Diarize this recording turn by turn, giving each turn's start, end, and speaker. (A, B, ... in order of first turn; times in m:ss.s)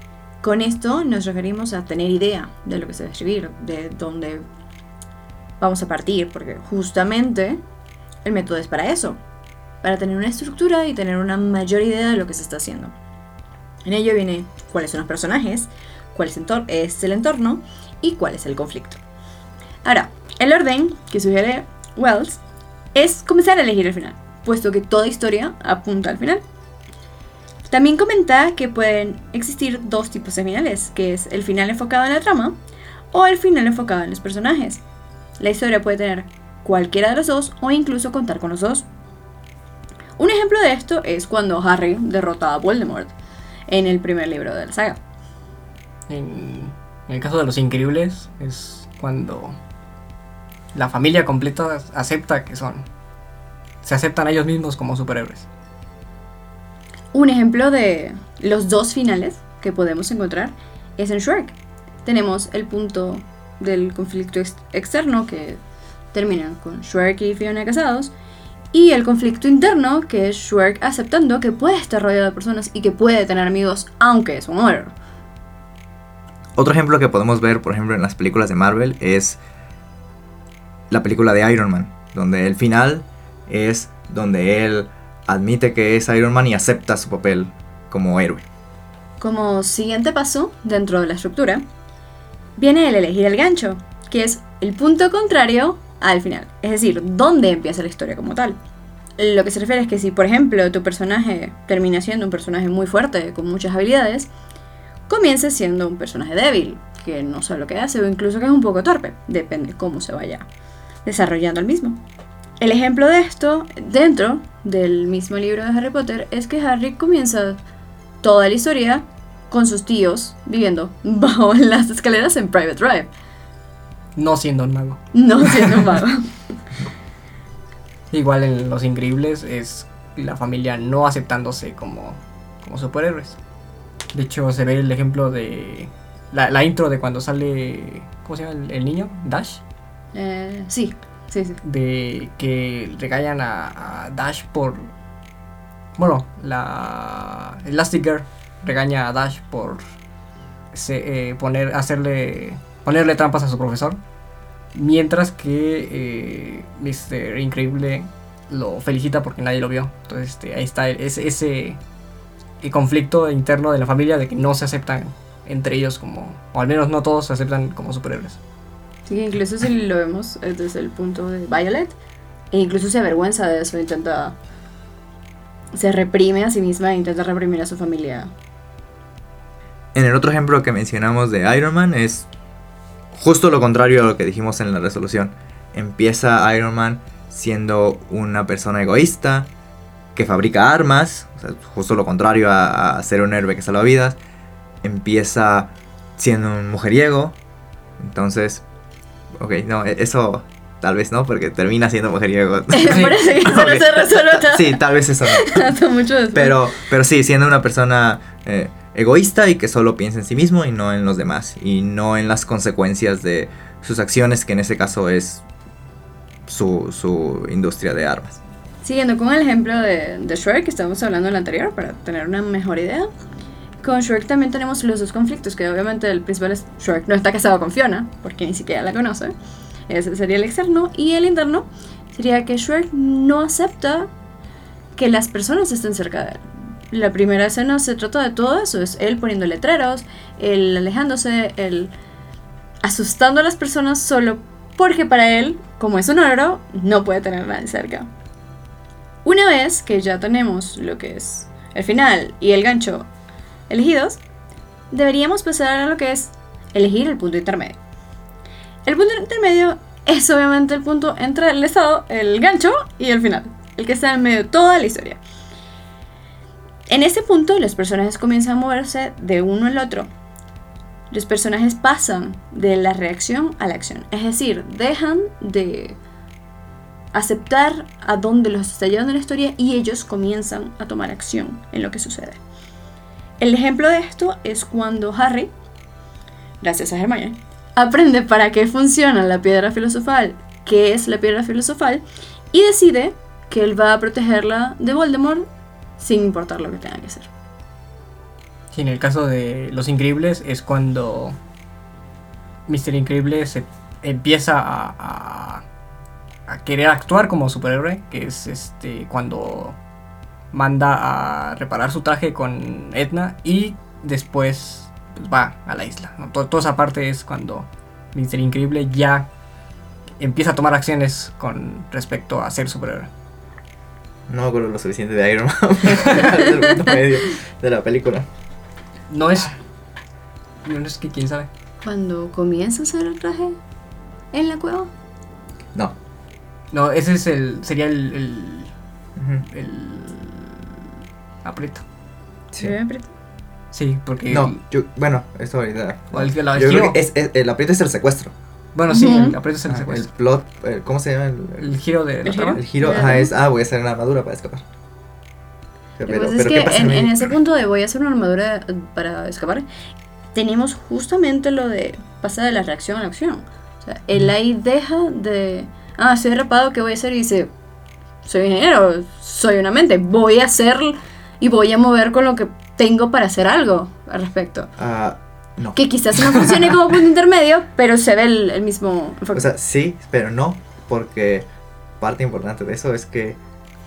0:00.4-0:04.4 A
0:05.6-0:07.6 A
0:08.2-0:09.2 A
0:09.8-0:13.0 A
0:13.8-0:19.0 A
0:19.8-0:22.4 A
0:22.9-0:26.4 A
0:27.7-0:32.6 A
0:33.1-0:34.8 A
0:35.4-0:38.9 A
0:40.2-0:43.1 A
0:43.7-0:45.0 A
0:46.1-0:49.6 B
0:50.7-0:52.9 B
0:53.8-0:55.5 B
0:57.1-1:05.6 A
1:06.1-1:08.1 A
1:08.7-1:14.9 A
1:16.6-1:19.4 C
1:20.9-1:28.5 C
1:29.2-1:31.6 A
1:32.6-1:38.6 A
1:39.2-1:44.3 A
1:45.1-1:50.5 A
1:51.0-1:52.0 A
1:52.6-1:57.6 A
1:58.2-2:03.1 A
2:04.2-2:05.8 B
2:05.1-2:06.3 A
2:08.1-2:13.4 B
2:14.1-2:19.6 B
2:20.1-2:21.6 A
2:21.6-2:24.9 B
2:26.0-2:29.8 B
2:30.7-2:34.0 B
2:34.7-2:41.8 B
2:42.6-2:48.4 B
2:49.1-2:52.0 A
2:52.5-2:54.4 A
2:55.7-2:58.3 A
3:00.0-3:02.3 C
3:03.1-3:09.5 C
3:10.2-3:14.2 C
3:14.8-3:17.4 C
3:18.0-3:18.6 C
3:19.4-3:25.7 C
3:22.7-3:26.7 A
3:22.8-3:23.2 B
3:26.3-3:35.4 C
3:36.5-3:38.4 C
3:38.8-3:43.1 A
3:43.8-3:49.4 A
3:49.9-3:54.1 A
3:55.0-4:01.9 A
4:02.8-4:08.1 A
4:09.2-4:13.1 A
4:13.7-4:14.2 A
4:14.9-4:17.8 A
4:18.9-4:25.2 A
4:26.9-4:30.1 A
4:31.1-4:36.0 A
4:37.1-4:42.4 A
4:43.4-4:45.5 A
4:46.6-4:55.5 A
4:56.0-4:57.3 A
4:58.7-5:01.4 B
5:02.7-5:05.6 B
5:06.5-5:09.8 B
5:10.5-5:19.3 B
5:20.2-5:23.1 B
5:24.3-5:28.3 C
5:29.1-5:29.6 B
5:30.6-5:31.5 B
5:31.8-5:33.6 A
5:34.3-5:34.9 A
5:36.7-5:38.7 B
5:39.2-5:39.4 C
5:39.5-5:40.6 B
5:41.4-5:41.8 B
5:42.6-5:43.1 A
5:43.7-5:44.6 B
5:44.3-5:48.3 C
5:46.1-5:47.0 B
5:48.8-5:50.1 B
5:48.9-5:49.4 A
5:49.7-5:51.7 C
5:51.6-5:52.6 B
5:52.2-5:53.3 A
5:52.6-5:54.6 C
5:56.0-5:57.4 C
5:56.1-5:59.7 A
6:00.3-6:07.5 A
6:08.2-6:14.7 A
6:14.8-6:15.8 C
6:15.8-6:19.5 A
6:19.3-6:21.5 C
6:22.0-6:23.4 C